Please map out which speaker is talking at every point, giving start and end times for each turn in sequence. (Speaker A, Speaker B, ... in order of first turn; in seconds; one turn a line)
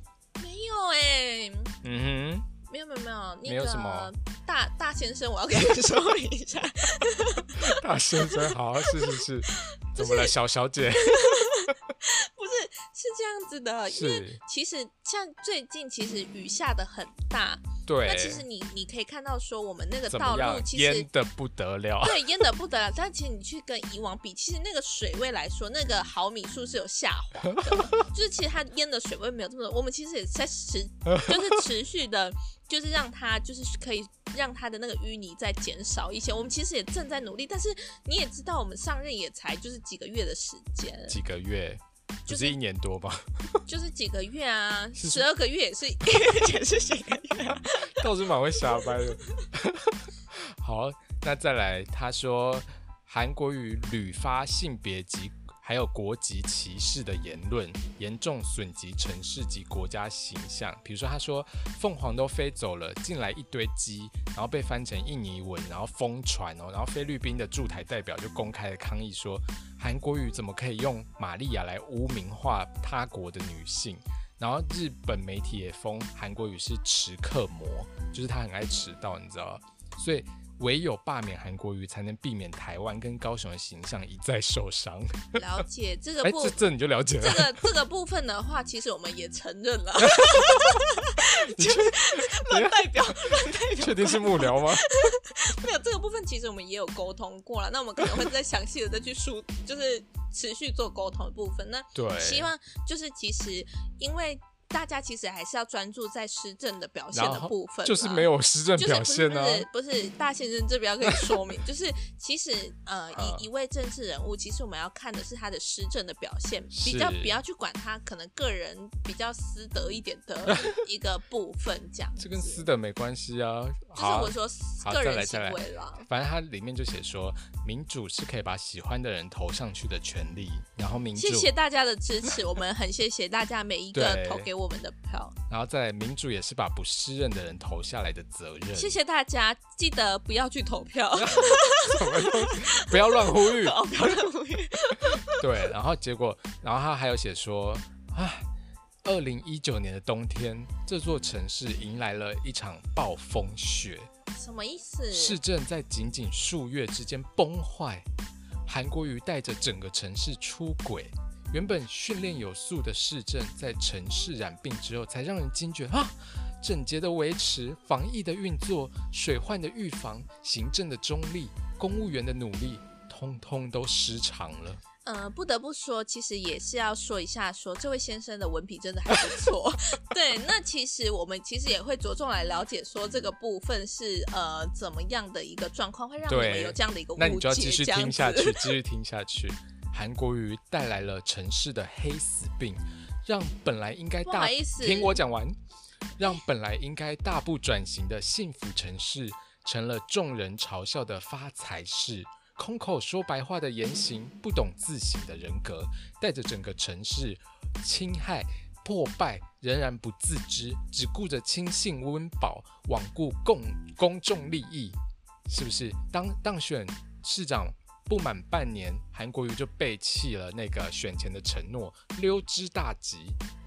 Speaker A: 0.4-1.8
Speaker B: 1.8-2.5
Speaker A: 2.7-10.3
Speaker B: 3.4-4.1
Speaker B: 7.5-11.7
Speaker A: 10.9-21.1
Speaker B: 13.9-14.4
Speaker B: 17.9-18.4
Speaker B: 20.1-22.4
Speaker A: 22.0-41.2
Speaker B: 27.4-28.1
Speaker B: 31.1-31.6
Speaker B: 41.1-43.6
Speaker A: 42.3-42.5
Speaker A: 43.7-48.1
Speaker B: 44.9-45.3
Speaker B: 47.7-85.4
Speaker A: 48.7-49.1
Speaker A: 85.4-122.7
Speaker B: 86.2-87.7
Speaker B: 90.0-94.9
Speaker B: 101.9-102.5
Speaker B: 107.1-109.7
Speaker B: 113.1-113.5
Speaker B: 116.7-117.4
Speaker B: 120.5-120.8
Speaker B: 122.2-131.5
Speaker A: 123.9-126.1
Speaker A: 131.2-135.4
Speaker B: 133.9-134.5
Speaker B: 135.5-139.0
Speaker A: 138.7-145.7
Speaker B: 141.1-143.8
Speaker B: 145.0-148.5
Speaker B: 149.0-154.1
Speaker A: 154.3-155.4
Speaker B: 155.1-158.1
Speaker B: 158.7-174.8
Speaker A: 175.0-188.7
Speaker B: 186.2-195.6
Speaker A: 194.2-195.2
Speaker B: 196.2-215.0
Speaker B: 215.5-223.4